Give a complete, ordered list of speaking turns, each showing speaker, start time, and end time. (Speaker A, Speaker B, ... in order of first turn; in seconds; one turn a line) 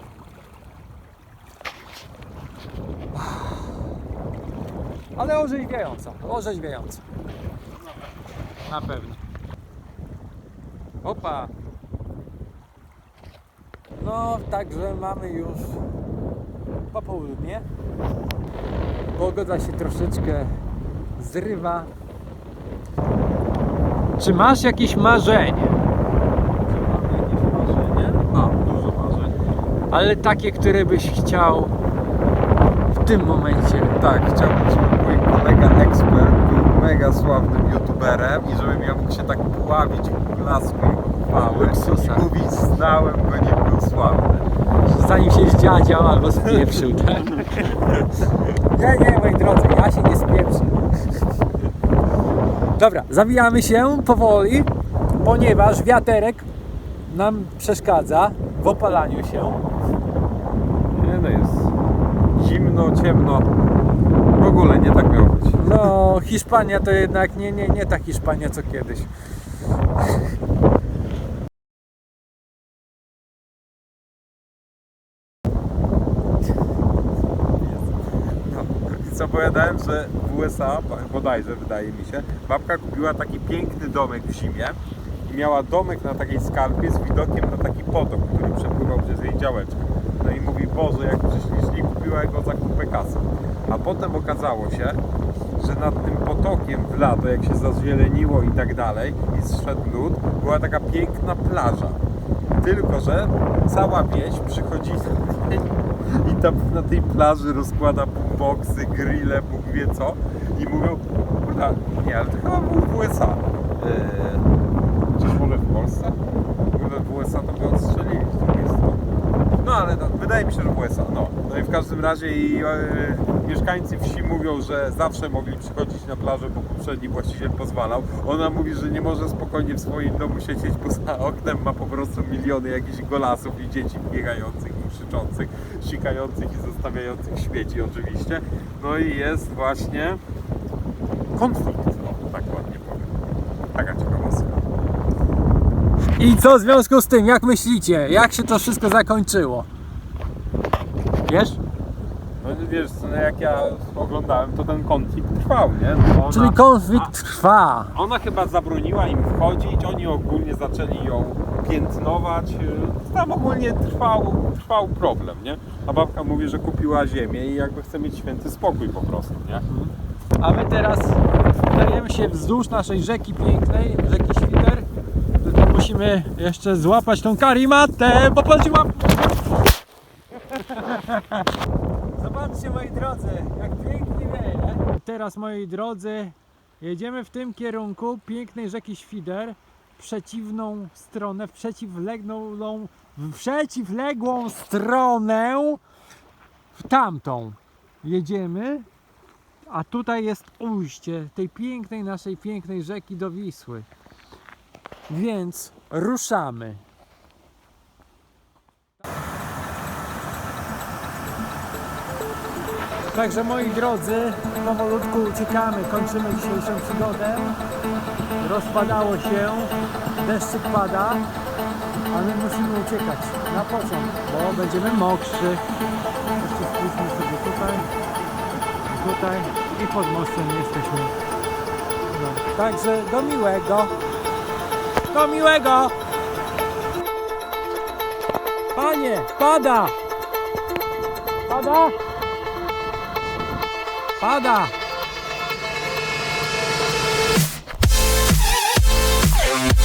Speaker A: 3.1-3.7
Speaker A: 5.2-7.0
Speaker A: 8.7-9.2
Speaker A: 11.0-11.5
Speaker A: 14.0-15.8
Speaker A: 16.9-17.7
Speaker A: 19.1-20.5
Speaker A: 21.2-21.9
Speaker A: 24.2-25.8
Speaker B: 26.6-29.4
Speaker A: 29.9-31.7
Speaker A: 32.9-34.0
Speaker B: 34.0-44.5
Speaker A: 41.4-42.3
Speaker A: 44.8-47.8
Speaker B: 46.4-47.9
Speaker A: 48.5-51.2
Speaker A: 52.8-56.5
Speaker A: 57.1-59.6
Speaker B: 60.9-61.7
Speaker B: 62.3-63.5
Speaker B: 64.3-65.9
Speaker A: 65.6-69.1
Speaker B: 77.6-77.9
Speaker B: 78.5-95.0
Speaker B: 95.6-102.0
Speaker B: 102.6-114.5
Speaker B: 115.1-116.2
Speaker B: 116.7-119.0
Speaker B: 119.6-140.2
Speaker B: 141.3-143.2
Speaker B: 143.7-144.6
Speaker A: 146.2-149.7
Speaker A: 151.2-151.6
Speaker B: 152.4-157.1
Speaker A: 156.3-157.9
Speaker B: 157.9-169.6
Speaker A: 169.7-174.8
Speaker A: 175.4-179.4
Speaker A: 180.5-181.4
Speaker A: 182.2-195.8
Speaker A: 196.7-198.9
Speaker A: 199.7-203.9
Speaker A: 205.1-206.8
Speaker A: 213.1-217.6
Speaker A: 218.4-221.2
Speaker A: 222.1-225.6
Speaker A: 226.4-227.9
Speaker A: 228.9-231.1
Speaker A: 232.1-233.9
Speaker A: 235.1-235.9
Speaker A: 238.7-239.9
Speaker A: 241.5-241.9
Speaker A: 244.2-244.7